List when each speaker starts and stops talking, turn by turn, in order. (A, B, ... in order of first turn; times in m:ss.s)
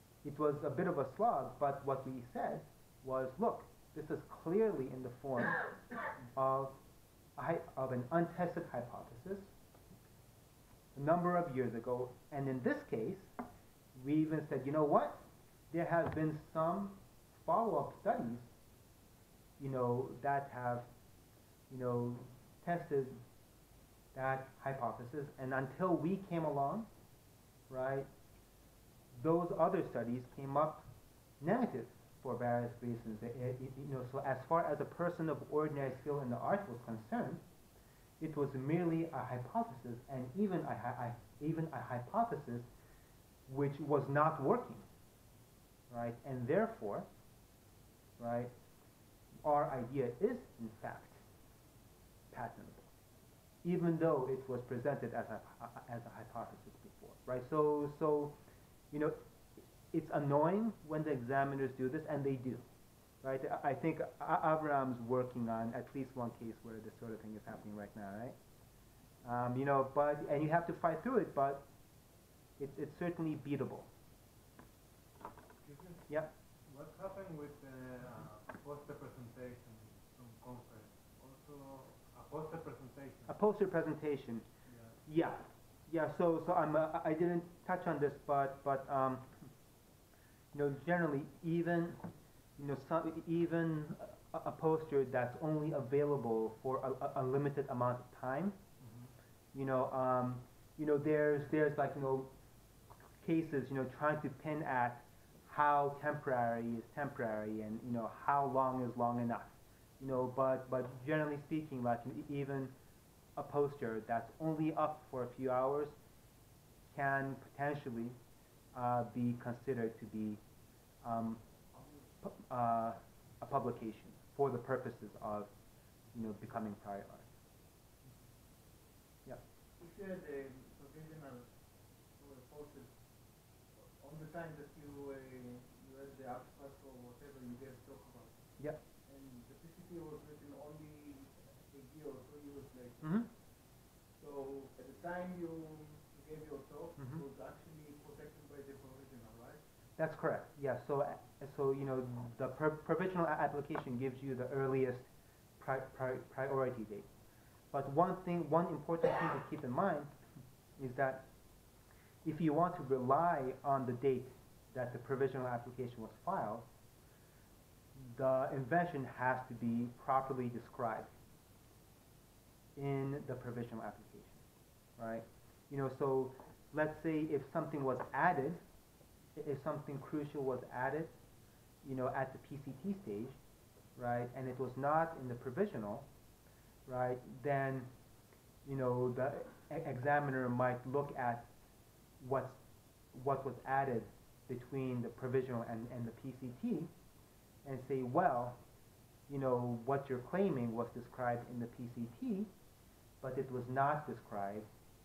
0:00.2-0:05.6 A
0:06.4-0:06.8 A
0:07.4-0:09.5 A
0:11.0-0:13.3 A
0:14.0-0:18.5 A
0:19.6-0:20.9 A
0:21.7-0:23.2 A
0:24.1-0:26.9 A
0:27.7-0:28.1 A
0:29.2-0:30.8 A
0:31.4-0:37.4 A
0:38.2-0:42.7 A
0:43.5-0:44.8 A
0:45.9-0:47.1 A
0:48.2-0:48.5 A
0:49.4-0:51.2 A
0:52.3-0:52.9 A
0:53.6-0:58.4 A
0:58.9-0:59.2 A
0:59.9-1:02.6 A
1:03.2-1:08.4 A
1:09.2-1:11.7 A
1:12.6-1:13.9 A
1:15.6-1:23.4 B
1:23.3-1:24.4 A
1:24.7-1:25.0 B
1:25.1-1:29.3 A
1:30.5-1:38.6 A
1:38.8-1:39.1 B
1:39.5-1:42.3 A
1:43.2-1:52.7 A
1:53.4-1:56.0 A
1:56.9-1:58.2 A
1:58.8-2:00.4 A
2:01.0-2:01.4 A
2:02.2-2:05.5 A
2:06.1-2:07.3 A
2:09.8-2:11.5 C
2:12.2-2:12.9 C
2:13.8-2:18.4 C
2:19.1-2:23.2 C
2:23.0-2:23.3 A
2:24.2-2:29.6 C
2:27.0-2:27.2 A
2:30.0-2:37.1 A
2:37.7-2:40.1 A
2:40.8-2:41.3 A
2:42.2-2:46.7 A
2:48.0-2:51.1 A
2:52.8-2:54.4 A
2:55.0-2:58.6 A
2:59.4-3:01.1 A
3:01.8-3:03.4 A
3:04.0-3:06.1 A
3:06.9-3:07.9 A
3:08.7-3:11.5 A
3:12.2-3:12.6 A
3:13.1-3:16.9 A
3:17.6-3:18.6 A
3:19.3-3:22.5 A
3:23.2-3:24.7 A